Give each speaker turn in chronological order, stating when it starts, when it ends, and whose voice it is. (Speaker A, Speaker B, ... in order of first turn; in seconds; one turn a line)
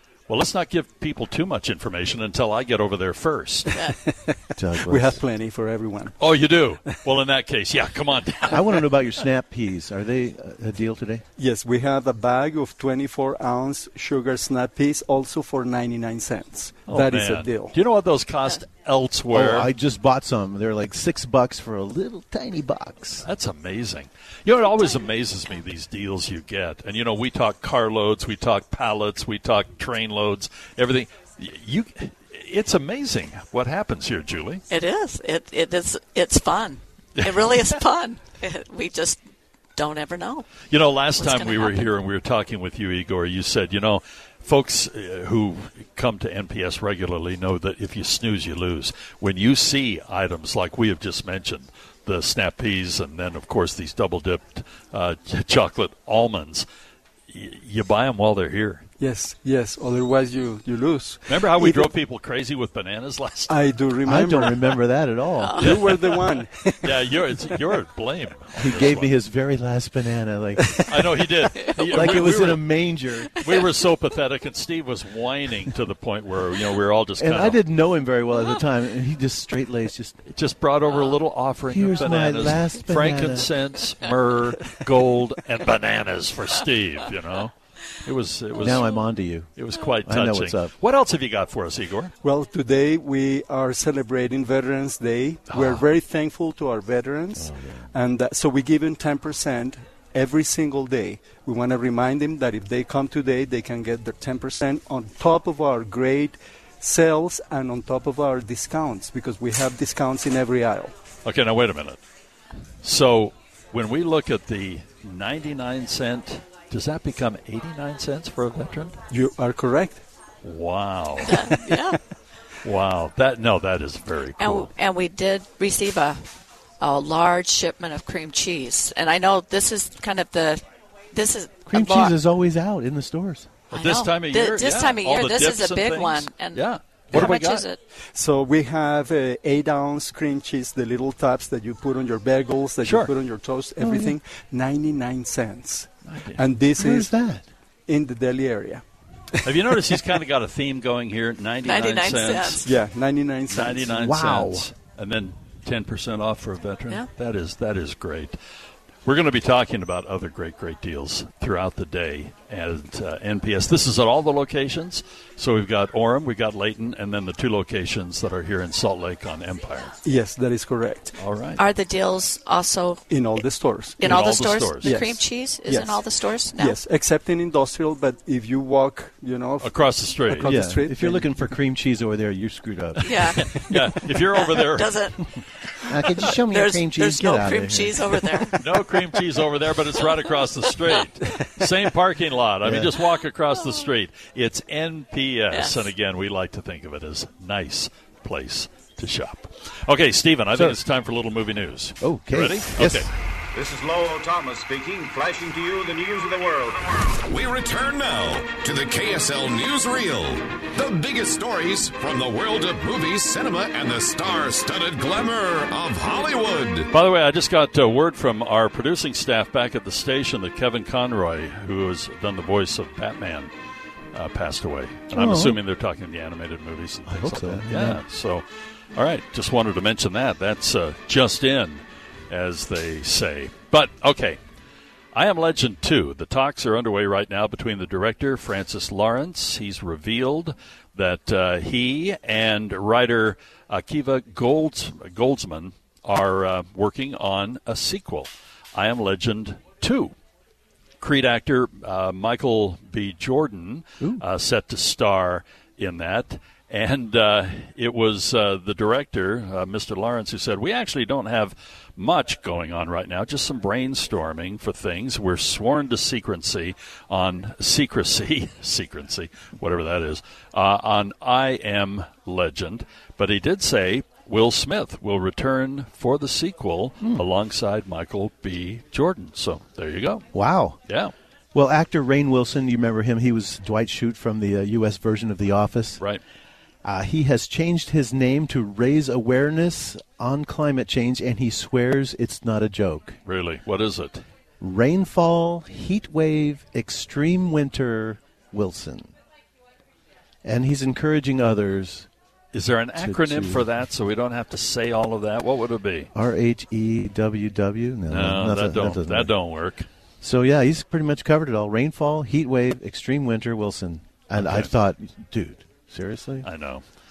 Speaker A: 0.3-3.9
Speaker B: 3.9-6.3
Speaker C: 4.5-5.2
Speaker A: 6.2-9.0
Speaker C: 8.5-11.2
Speaker B: 11.4-17.8
Speaker A: 16.9-19.7
Speaker C: 19.3-23.2
Speaker A: 23.2-34.6
Speaker D: 34.7-39.2
Speaker D: 39.8-40.5
Speaker A: 40.7-56.7
Speaker D: 41.2-41.9
Speaker A: 57.3-58.9
Speaker B: 59.0-61.9
Speaker A: 61.3-63.6
Speaker B: 63.5-64.8
Speaker C: 64.0-65.6
Speaker D: 65.4-65.8
Speaker A: 65.6-69.2
Speaker B: 65.6-67.5
Speaker C: 68.6-70.8
Speaker A: 70.9-72.8
Speaker D: 71.5-72.1
Speaker C: 71.9-73.3
Speaker A: 73.3-77.6
Speaker C: 77.2-80.2
Speaker A: 80.3-92.2
Speaker C: 81.7-83.5
Speaker C: 88.6-90.7
Speaker B: 92.2-110.9
Speaker A: 95.5-95.9
Speaker C: 97.3-97.9
Speaker A: 111.2-112.0
Speaker A: 112.8-119.0
Speaker B: 119.1-120.0
Speaker A: 120.4-121.6
Speaker D: 121.2-122.0
Speaker A: 122.6-124.7
Speaker D: 124.4-132.2
Speaker C: 131.7-133.5
Speaker A: 133.7-137.7
Speaker D: 133.7-137.8
Speaker B: 138.0-147.1
Speaker A: 142.8-143.1
Speaker C: 143.8-144.2
Speaker A: 146.0-146.4
Speaker C: 146.8-147.5
Speaker B: 147.9-148.8
Speaker A: 149.4-152.7
Speaker D: 151.6-152.7
Speaker B: 152.7-154.3
Speaker A: 153.5-158.4
Speaker C: 154.0-154.7
Speaker A: 159.1-170.0
Speaker B: 170.1-171.2
Speaker A: 171.2-171.6
Speaker D: 171.6-173.5
Speaker B: 173.1-174.2
Speaker D: 174.0-176.8
Speaker A: 174.0-175.0
Speaker B: 174.8-179.8
Speaker A: 179.6-180.5
Speaker B: 180.3-181.3
Speaker C: 180.4-183.6
Speaker D: 183.0-183.4
Speaker A: 183.2-185.0
Speaker D: 184.3-188.9
Speaker C: 185.8-188.5
Speaker A: 188.6-203.1
Speaker D: 190.0-191.0
Speaker C: 192.6-192.9
Speaker D: 195.5-195.9
Speaker C: 200.5-200.8
Speaker C: 202.0-203.1
Speaker E: 203.6-206.8
Speaker F: 207.2-216.9
Speaker A: 216.9-223.5
Speaker A: 224.1-234.4
Speaker C: 225.1-225.6
Speaker C: 227.1-228.0
Speaker A: 235.1-250.2
Speaker A: 251.0-280.3
Speaker C: 280.3-280.8
Speaker A: 280.9-281.1
Speaker C: 281.5-286.0
Speaker C: 286.8-293.2
Speaker A: 293.2-294.3
Speaker C: 294.6-299.1
Speaker C: 300.4-302.1
Speaker A: 302.5-306.1
Speaker C: 303.0-303.7
Speaker C: 306.1-309.3
Speaker A: 308.1-309.9
Speaker C: 310.2-316.5
Speaker A: 314.4-314.7
Speaker A: 316.4-316.9